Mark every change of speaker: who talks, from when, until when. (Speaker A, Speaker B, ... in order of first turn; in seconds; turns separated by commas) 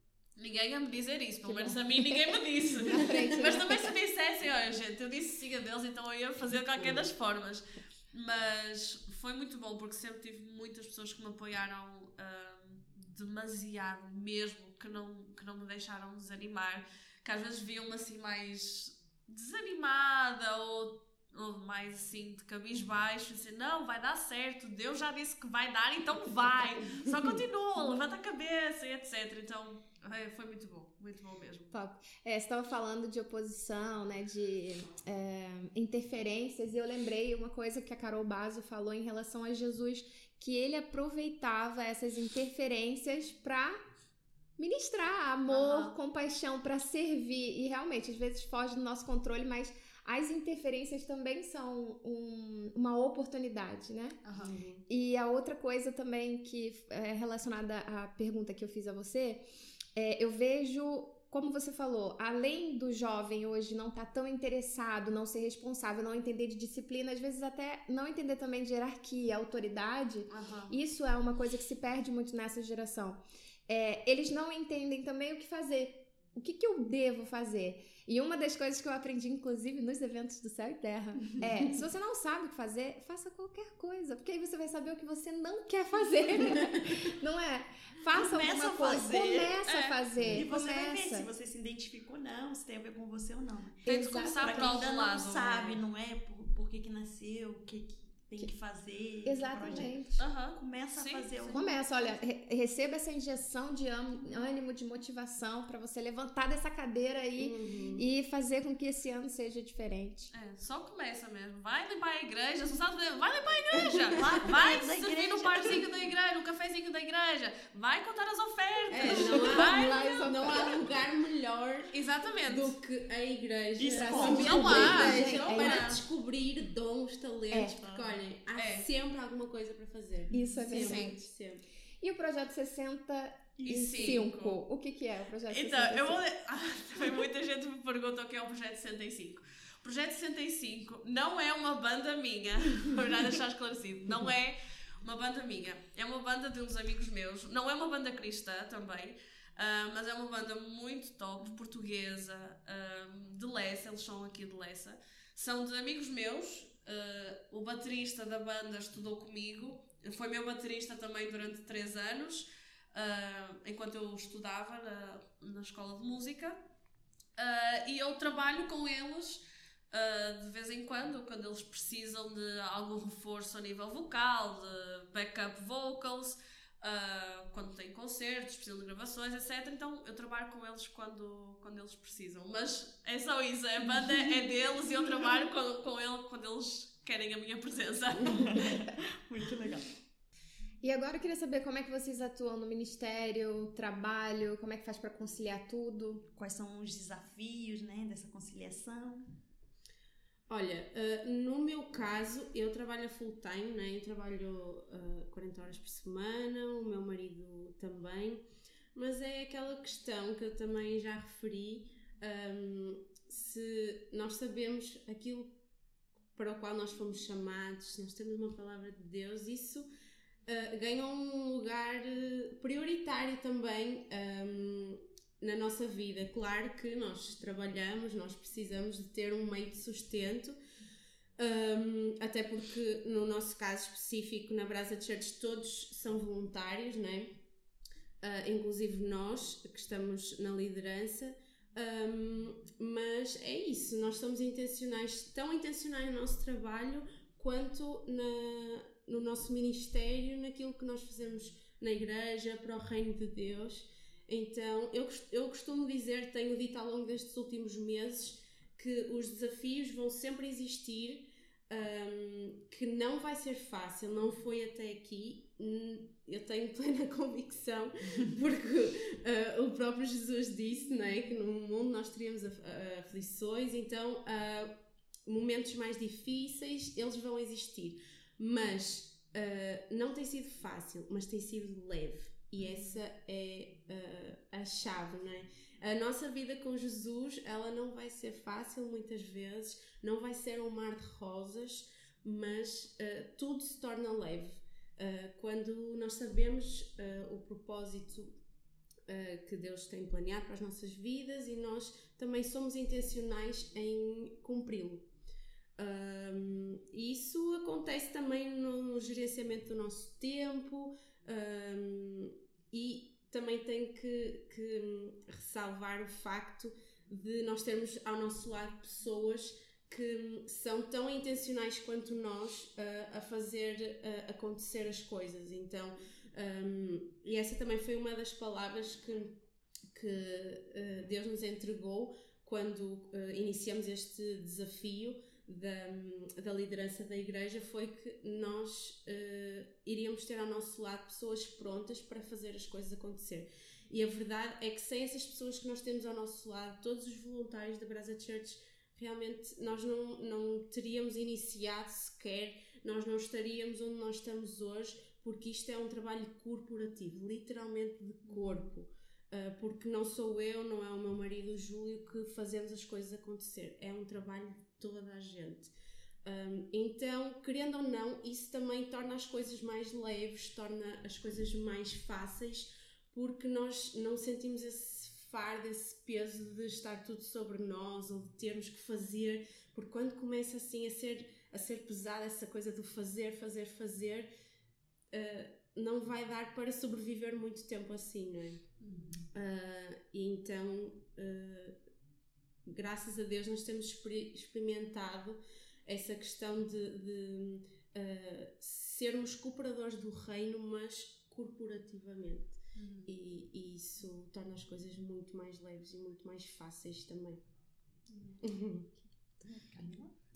Speaker A: 0.4-31.7, Speaker B: 1.4-3.9, Speaker C: 6.8-7.1, Speaker B: 31.7-43.8, Speaker B: 44.6-54.2, Speaker A: 45.5-46.0, Speaker A: 54.2-54.5, Speaker C: 54.4-54.8, Speaker B: 54.9-59.4, Speaker B: 60.0-91.3, Speaker A: 70.3-70.7, Speaker D: 88.1-89.6, Speaker A: 89.6-90.0, Speaker D: 90.2-100.0, Speaker B: 93.9-94.9, Speaker A: 93.9-95.8, Speaker B: 99.2-100.2, Speaker A: 100.2-101.8, Speaker D: 100.5-101.9, Speaker B: 101.5-110.3, Speaker C: 107.4-108.0, Speaker A: 110.3-120.3, Speaker D: 114.1-115.8, Speaker B: 118.9-120.8, Speaker C: 118.9-121.9, Speaker A: 121.9-122.7, Speaker C: 122.5-131.6, Speaker D: 123.8-124.9, Speaker B: 123.9-125.9, Speaker A: 124.3-126.0, Speaker D: 127.8-128.2, Speaker A: 128.6-128.9, Speaker B: 130.3-131.2, Speaker B: 132.0-136.2, Speaker D: 133.6-134.2, Speaker A: 133.6-134.6, Speaker A: 135.5-166.6, Speaker A: 167.4-188.5, Speaker D: 188.3-189.9, Speaker B: 190.8-196.2, Speaker D: 196.3-199.3, Speaker C: 200.5-208.4, Speaker C: 208.9-215.5, Speaker C: 216.4-219.9, Speaker C: 220.4-230.6, Speaker C: 231.4-237.3, Speaker C: 238.2-274.7, Speaker C: 275.3-298.4, Speaker A: 282.6-283.0, Speaker C: 299.1-305.1, Speaker C: 305.8-329.4, Speaker C: 329.9-365.7, Speaker A: 358.3-358.6, Speaker C: 366.2-384.3, Speaker C: 385.1-388.6, Speaker D: 388.9-389.2, Speaker C: 389.3-391.8, Speaker C: 392.7-407.4, Speaker A: 402.8-403.1, Speaker A: 408.1-408.4, Speaker C: 408.4-408.9, Speaker D: 409.4-410.1